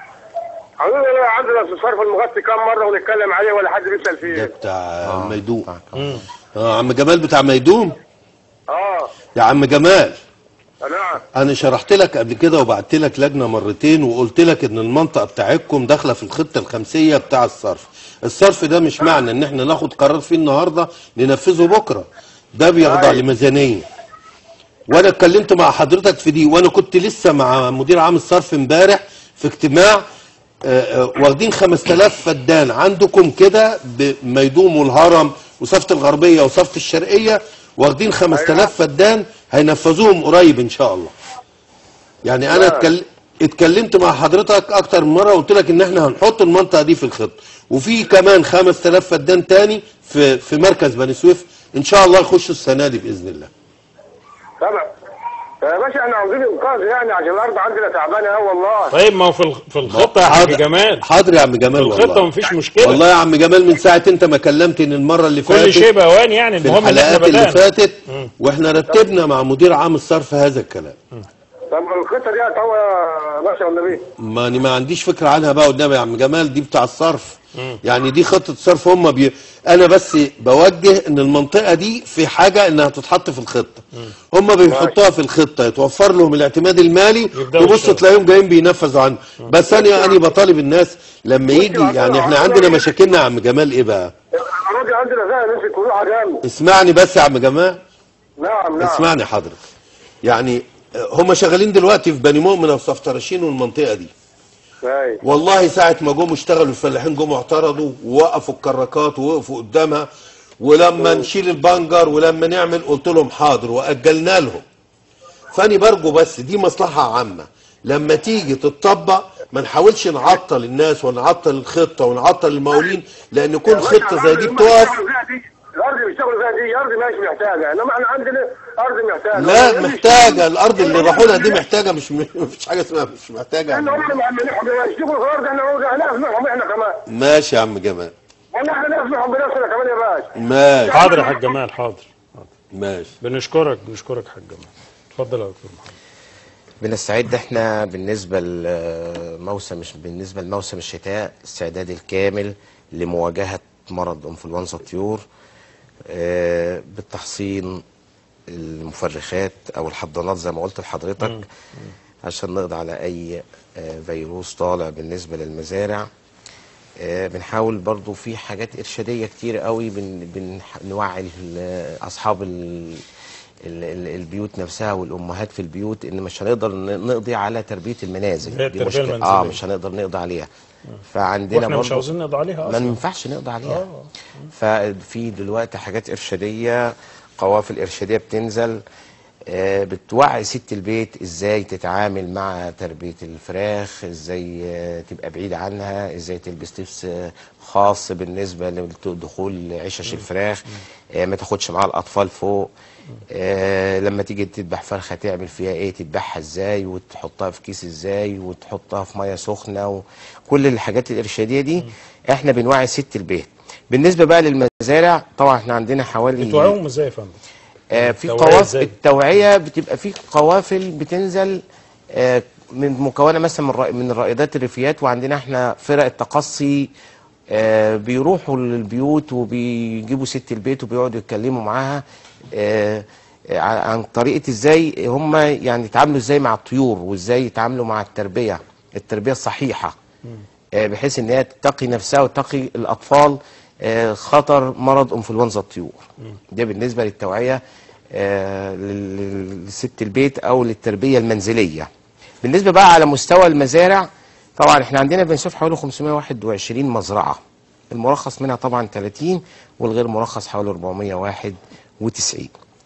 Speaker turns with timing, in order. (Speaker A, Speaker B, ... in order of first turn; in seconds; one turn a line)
Speaker A: 0.8-4.5
Speaker B: 4.2-5.7
Speaker C: 5.0-6.2
Speaker D: 6.0-6.2
Speaker B: 6.5-8.0
Speaker A: 8.7-9.1
Speaker B: 9.3-10.2
Speaker A: 10.8-11.2
Speaker B: 11.3-23.9
Speaker B: 24.9-30.0
Speaker B: 30.6-41.1
Speaker A: 38.3-38.7
Speaker B: 42.2-53.5
Speaker A: 42.5-42.9
Speaker A: 54.6-54.9
Speaker A: 55.6-58.9
Speaker D: 58.9-61.0
Speaker B: 59.8-62.3
Speaker D: 61.7-63.0
Speaker B: 62.8-65.9
Speaker D: 65.5-68.3
Speaker B: 66.6-71.0
Speaker A: 71.7-74.0
Speaker B: 74.2-94.1
Speaker A: 84.7-85.0
Speaker D: 87.3-88.0
Speaker A: 89.7-90.2
Speaker A: 91.5-92.9
Speaker A: 94.3-96.4
Speaker B: 96.4-97.8
Speaker A: 98.4-99.1
Speaker B: 98.8-99.6
Speaker B: 100.2-104.1
Speaker A: 104.8-105.2
Speaker B: 105.2-110.0
Speaker B: 110.6-114.6
Speaker A: 111.0-111.3
Speaker B: 115.5-125.0
Speaker A: 123.7-131.6
Speaker B: 129.3-134.1
Speaker A: 133.7-137.0
Speaker B: 137.1-138.1
Speaker A: 138.5-140.3
Speaker B: 140.3-141.2
Speaker A: 140.8-141.4
Speaker D: 140.9-142.5
Speaker B: 142.7-143.1
Speaker D: 143.2-145.9
Speaker C: 146.8-155.2
Speaker C: 156.1-157.8
Speaker C: 158.5-161.4
Speaker D: 161.2-161.9
Speaker C: 162.2-166.1
Speaker C: 167.0-173.0
Speaker C: 173.6-180.5
Speaker D: 178.5-179.6
Speaker C: 181.1-182.1
Speaker D: 181.5-183.0
Speaker C: 182.6-183.8
Speaker D: 183.7-184.1
Speaker C: 184.5-188.8
Speaker C: 189.5-202.7
Speaker C: 203.3-216.8
Speaker D: 216.4-217.3
Speaker C: 217.9-226.9
Speaker D: 218.0-218.9
Speaker C: 227.5-239.9
Speaker C: 240.8-247.6
Speaker C: 248.1-251.9
Speaker C: 252.4-262.5